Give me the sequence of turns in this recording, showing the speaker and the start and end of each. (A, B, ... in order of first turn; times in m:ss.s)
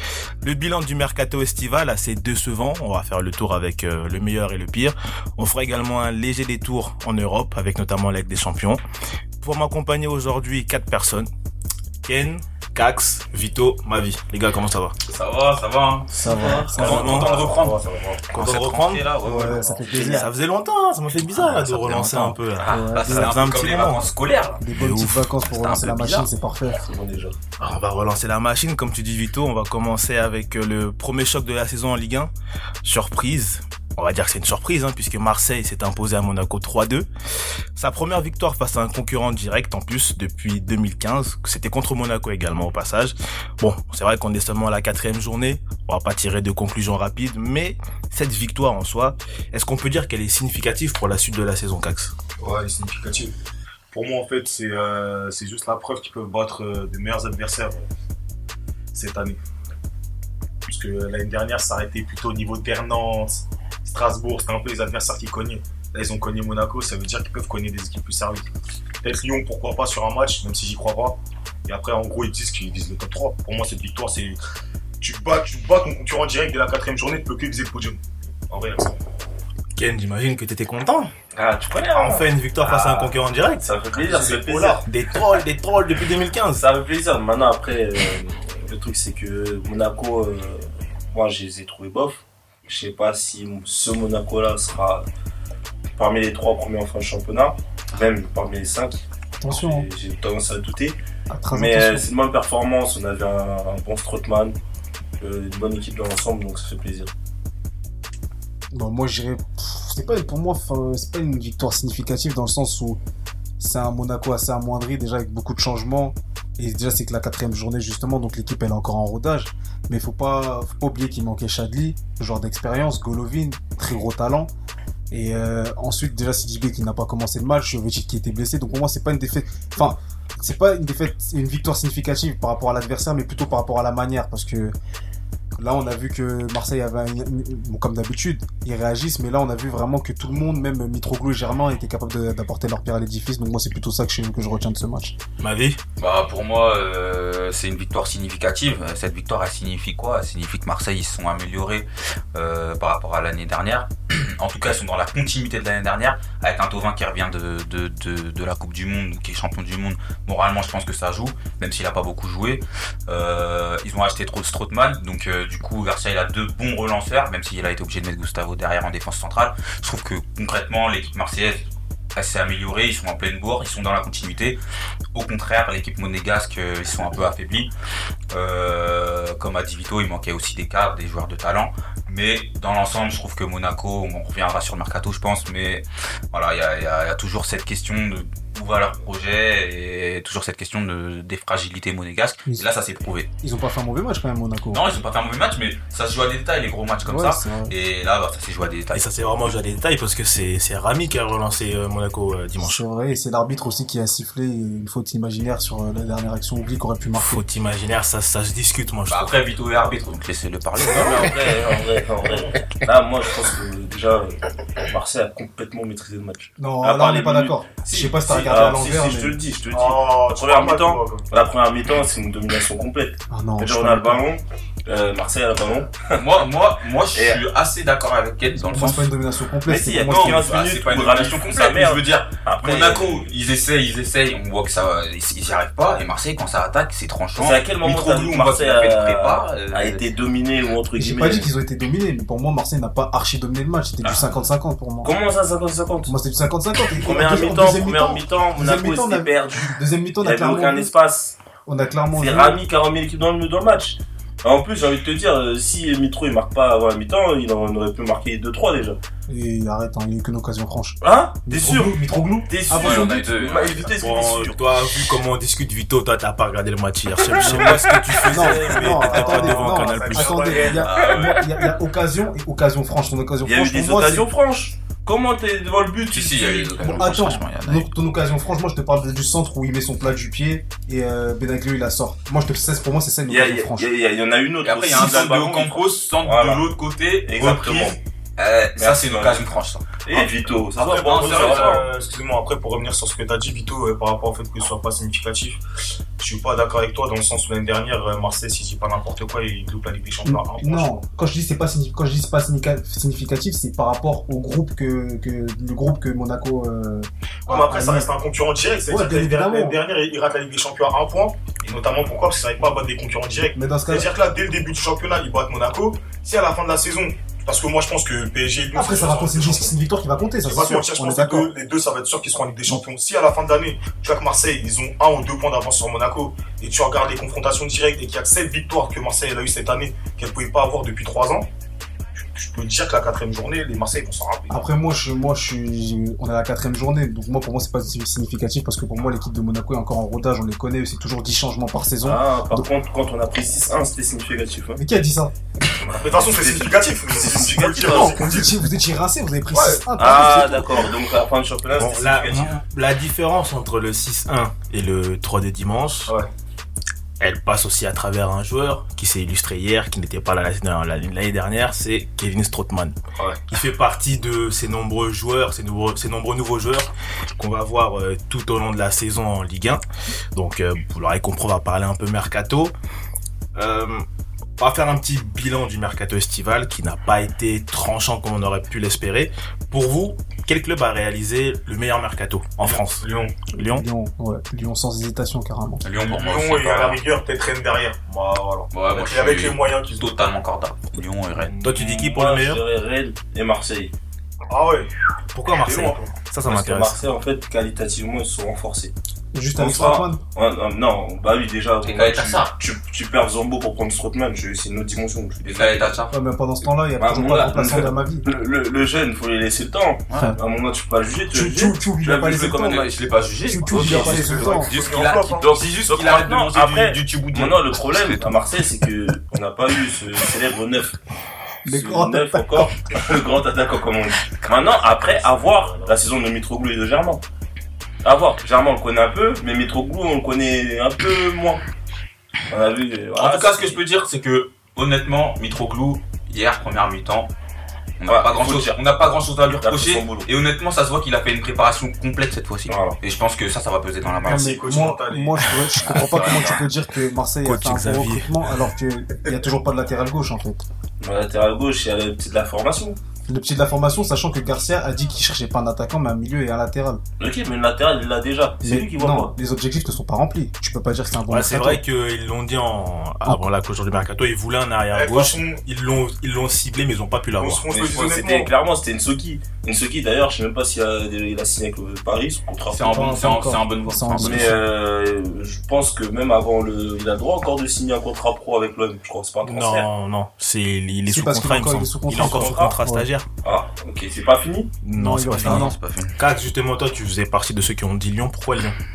0:00.4-0:08.8 A
0:09.4-0:11.3 A
0:12.0-0:15.0 A
0:15.1-0:20.3 B
0:16.1-0:17.1 C
0:16.1-0:17.6 D
0:16.8-0:17.4 A
0:16.8-0:18.1 E
0:18.3-0:19.1 A
0:19.2-0:20.3 C
0:19.8-0:24.1 A
0:21.4-0:24.6 B
0:22.6-0:22.9 D
0:22.7-0:23.3 C
0:24.6-0:26.8 C
0:24.7-0:25.3 A
0:25.4-0:26.3 B
0:26.7-0:27.4 D
0:27.6-0:32.3 A
0:32.8-0:37.1 A
0:37.8-0:52.1 A
0:52.4-0:53.4 E
0:53.9-0:57.8 E
0:58.9-0:59.4 E
1:00.7-1:08.5 E
1:09.0-1:14.4 E
1:15.0-1:19.0 E
1:19.8-1:21.1 A
1:21.3-1:24.8 D
1:22.0-1:22.2 E
1:22.0-1:23.7 A
1:23.9-1:24.8 E
1:24.8-1:26.6 A
1:26.6-1:35.1 D
1:36.0-1:41.0 D
1:39.4-1:39.9 C
1:41.3-1:42.1 C
1:41.5-1:44.6 D
1:45.2-1:47.1 D
1:48.7-1:53.0 C
1:53.6-2:04.5 C
2:05.1-2:14.8 C
2:15.6-2:25.2 C
2:25.4-2:25.8 A
2:26.0-2:54.6 B
2:55.1-2:57.7 B
2:58.3-3:13.3 B
3:13.4-3:14.9 C
3:14.7-3:19.2 B
3:17.1-3:17.7 C
3:18.9-3:22.8 A
3:22.6-3:27.4 C
3:27.2-3:29.4 A
3:29.1-3:31.4 B
3:30.8-3:46.2 D
3:36.6-3:39.4 C
3:39.7-3:41.3 E
3:43.3-3:44.2 C
3:46.2-3:49.1 B
3:47.1-3:47.4 D
3:48.6-3:50.5 C
3:49.7-3:53.3 D
3:50.1-4:00.1 B
3:57.4-4:01.5 D
4:01.0-4:05.1 C
4:05.0-4:06.1 D
4:06.1-4:10.9 C
4:06.9-4:11.4 D
4:11.7-4:12.6 C
4:12.1-4:19.0 D
4:19.3-4:23.4 C
4:21.0-4:24.6 D
4:22.7-4:23.9 B
4:24.0-4:30.6 A
4:27.4-4:34.3 C
4:28.2-4:29.1 D
4:28.9-4:31.0 E
4:30.6-4:31.4 B
4:33.4-4:36.8 D
4:36.1-4:37.9 B
4:36.8-4:43.9 C
4:43.3-4:46.7 D
4:44.6-4:50.2 B
4:47.3-4:48.0 D
4:48.8-4:49.4 D
4:50.0-4:51.9 D
4:50.8-4:55.6 E
4:51.0-4:51.9 B
4:56.2-5:01.0 E
5:00.2-5:08.1 C
5:07.5-5:19.8 E
5:08.9-5:09.8 C
5:13.6-5:14.1 C
5:18.8-5:21.5 C
5:20.4-5:31.5 E
5:32.2-5:34.6 E
5:34.5-5:42.7 C
5:42.0-5:44.8 D
5:44.8-5:45.3 C
5:45.8-5:48.2 D
5:46.0-5:48.5 E
5:47.8-5:50.9 C
5:49.5-5:50.2 E
5:50.0-5:52.5 D
5:51.8-5:56.2 A
5:57.2-6:03.0 A
6:03.2-6:03.4 E
6:03.5-6:09.8 A
6:10.3-6:12.7 A
6:13.6-6:14.1 A
6:14.6-6:23.9 A
6:22.9-6:23.3 E
6:23.7-6:25.8 C
6:25.8-6:27.0 B
6:25.9-6:30.1 E
6:28.7-6:31.6 B
6:31.4-6:33.9 D
6:31.6-6:32.6 A
6:34.5-6:34.9 E
6:35.3-6:37.0 A
6:35.5-6:36.1 E
6:36.4-6:38.9 D
6:39.3-6:40.2 C
6:39.6-6:46.0 D
6:41.8-6:42.5 B
6:45.4-6:46.1 B
6:46.1-6:48.3 C
6:47.0-6:52.8 D
6:51.3-6:52.9 C
6:52.6-6:58.4 B
6:53.5-6:54.7 C
6:53.7-6:55.7 E
6:55.8-7:01.0 D
7:01.6-7:02.8 C
7:01.7-7:07.2 D
7:08.0-7:11.6 D
7:12.5-7:13.8 D
7:13.2-7:17.3 B
7:18.0-7:24.6 B
7:18.1-7:18.8 D
7:19.6-7:20.3 D
7:22.7-7:23.0 D
7:24.1-7:25.6 E
7:24.3-7:30.6 C
7:25.9-7:26.6 B
7:27.4-7:28.4 A
7:31.0-7:33.0 D
7:33.3-7:37.0 C
7:37.2-7:39.3 D
7:38.6-7:41.8 C
7:41.3-7:47.7 A
7:44.9-7:45.6 E
7:47.4-7:48.5 E
7:47.7-7:53.4 D
7:47.8-7:48.2 B
7:52.7-7:54.6 B
7:52.8-7:54.6 C
7:54.2-7:59.9 D
7:59.4-8:03.3 A
8:01.1-8:03.1 C
8:02.1-8:02.8 D
8:03.4-8:04.8 D
8:04.8-8:08.8 A
8:04.9-8:05.8 C
8:05.3-8:06.2 B